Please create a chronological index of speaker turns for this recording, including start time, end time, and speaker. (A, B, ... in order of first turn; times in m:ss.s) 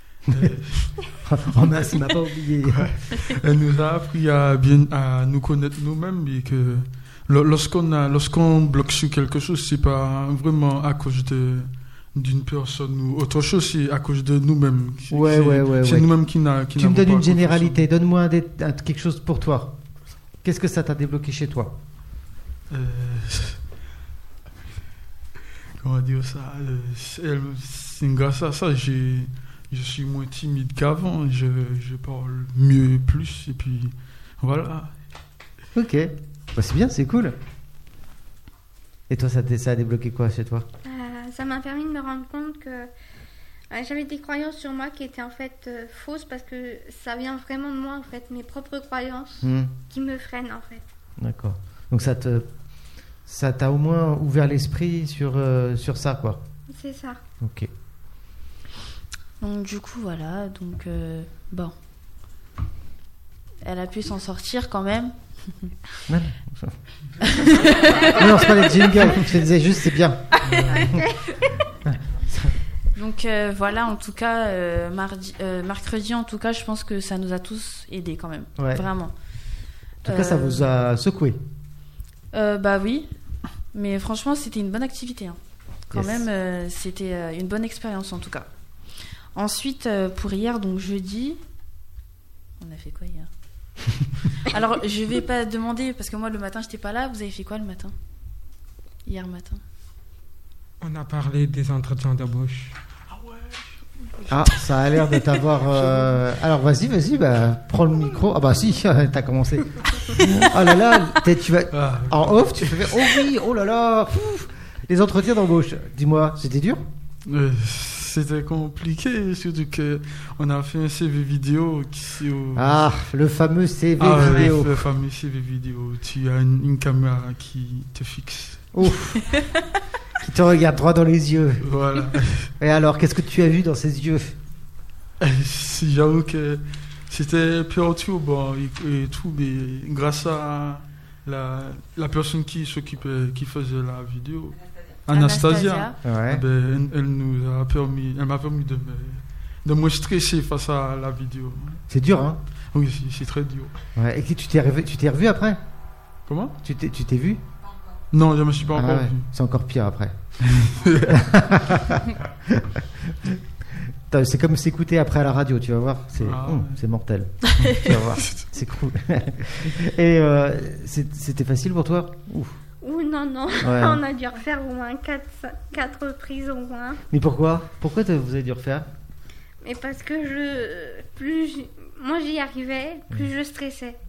0:00.3-0:00.6 A
0:00.3-0:01.1 B
0:01.2-0:03.0 A
0:02.7-0:17.8 B
0:15.1-0:16.1 A
0:16.7-0:19.8 A
0:20.4-0:21.8 A
0:22.7-0:23.6 B
0:25.8-0:34.9 B
0:35.8-0:37.4 A
0:39.1-0:40.7 A
0:40.8-0:42.9 C
0:43.7-0:50.8 C
0:49.4-0:49.7 A
0:51.2-0:52.5 A
0:53.3-0:56.4 A
0:56.7-0:57.2 C
0:57.4-0:57.7 A
0:59.4-1:01.7 D
1:03.6-1:05.7 D
1:06.1-1:06.8 A
1:07.2-1:09.1 D
1:07.5-1:11.1 A
1:10.3-1:11.0 D
1:10.4-1:11.0 B
1:11.8-1:12.6 A
1:13.0-1:19.1 D
1:18.6-1:18.9 A
1:20.0-1:21.4 A
1:20.1-1:20.7 D
1:22.3-1:23.1 D
1:23.7-1:25.4 D
1:25.9-1:28.5 D
1:25.9-1:26.3 A
1:29.3-1:31.4 D
1:32.6-1:33.3 D
1:34.4-1:37.9 D
1:39.1-1:39.6 D
1:40.8-1:42.8 E
1:43.1-1:44.6 B
1:44.3-1:56.8 A
1:45.7-1:46.1 B
1:51.7-1:53.0 B
1:57.2-2:02.8 B
2:02.6-2:04.9 A
2:04.0-2:08.7 B
2:08.7-2:09.4 A
2:10.2-2:11.7 A
2:11.6-2:12.5 B
2:12.6-2:14.4 A
2:15.2-2:31.8 B
2:25.1-2:26.0 D
2:26.0-2:26.4 A
2:31.9-2:32.4 A
2:32.7-2:33.7 B
2:34.0-2:35.6 A
2:36.3-2:36.6 B
2:36.6-2:37.4 A
2:38.1-2:39.2 B
2:38.7-2:40.3 A
2:40.4-2:41.2 B
2:41.1-2:52.6 A
2:46.2-2:46.8 B
2:47.9-2:48.4 B
2:52.8-2:57.0 C
2:53.6-2:54.0 A
2:57.1-2:58.9 A
2:59.6-3:04.0 C